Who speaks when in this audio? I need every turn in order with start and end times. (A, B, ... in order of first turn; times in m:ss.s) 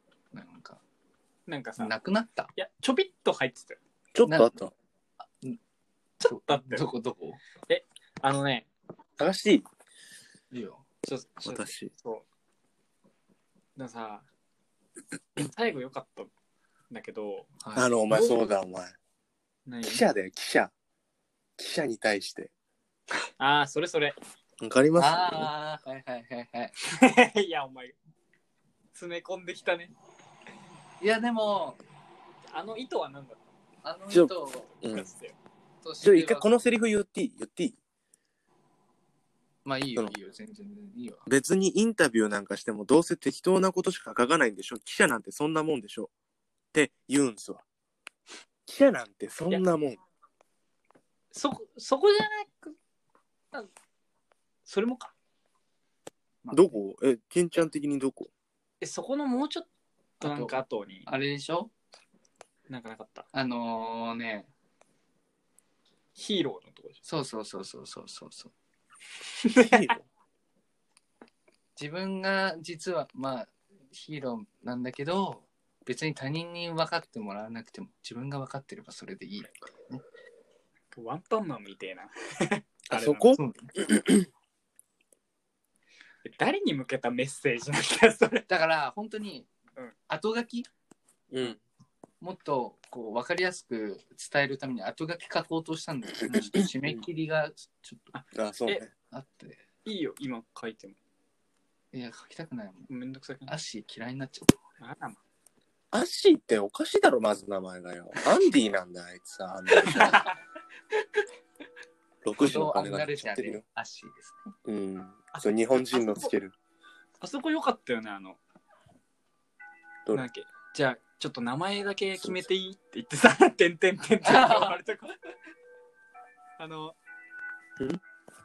0:00.3-0:00.8 A
0:01.5-0:01.9 B
0:01.8-0:02.5 A
0:02.6-0:03.8 B
0:04.1-0:04.7 C
0:04.2-0:04.6 A
0:05.2-0:05.6 A
0:06.2-0:06.8 B
0:06.2-0:07.4 A
0:07.7-0:08.7 B
0:09.2-0:09.7 C
0:10.5-0:10.8 A
0:11.0-0:12.2 B
0:11.4-0:11.9 C
0:13.8-0:14.2 B
0:15.4-0:16.3 B
0:16.9-0:17.6 B
0:17.6-0:17.9 A
0:17.8-0:18.9 C
0:18.1-0:18.5 B
0:19.7-0:20.0 B
0:19.8-0:20.7 C
0:21.6-0:22.5 C
0:23.4-0:24.2 B
0:24.6-0:25.5 C
0:25.0-0:26.7 A
0:26.8-0:27.9 B
0:28.9-0:29.9 B
0:31.0-0:31.8 A
0:32.4-0:33.5 B
0:33.8-0:34.7 A
0:34.1-0:35.1 C
0:34.8-0:35.4 B
0:35.8-0:36.5 A
0:36.0-0:37.8 C
0:39.6-0:41.3 A
0:41.3-0:46.1 C
0:46.7-0:47.6 C
0:48.7-0:50.0 C
0:51.3-0:52.8 B
0:54.7-0:55.1 B
0:56.4-0:56.7 A
0:56.5-0:58.3 C
0:58.8-0:59.7 B
1:00.2-1:01.1 B
1:00.2-1:01.7 A
1:02.7-1:03.2 B
1:03.3-1:04.5 A
1:06.2-1:07.0 B
1:07.0-1:08.5 A
1:09.4-1:10.0 B
1:09.7-1:10.0 C
1:11.8-1:20.0 A
1:20.9-1:23.4 B
1:22.9-1:23.4 C
1:23.4-1:23.7 A
1:26.2-1:28.5 B
1:28.5-1:29.5 A
1:30.1-1:30.7 A
1:31.3-1:31.6 C
1:32.2-1:38.1 A
1:36.3-1:36.5 B
1:36.5-1:37.0 C
1:38.1-1:38.8 B
1:38.3-1:38.9 C
1:39.1-1:39.6 A
1:39.8-1:41.0 B
1:41.9-1:42.9 A
1:42.9-1:43.5 B
1:43.5-1:44.6 A
1:44.8-1:45.2 B
1:45.9-1:50.3 C
1:49.9-1:50.3 B
1:52.2-1:53.6 C
1:52.4-1:54.4 A
1:54.6-1:56.5 C
1:55.3-1:56.3 B
1:57.2-1:58.4 B
2:00.1-2:05.2 B
2:04.2-2:04.8 A
2:06.6-2:07.0 B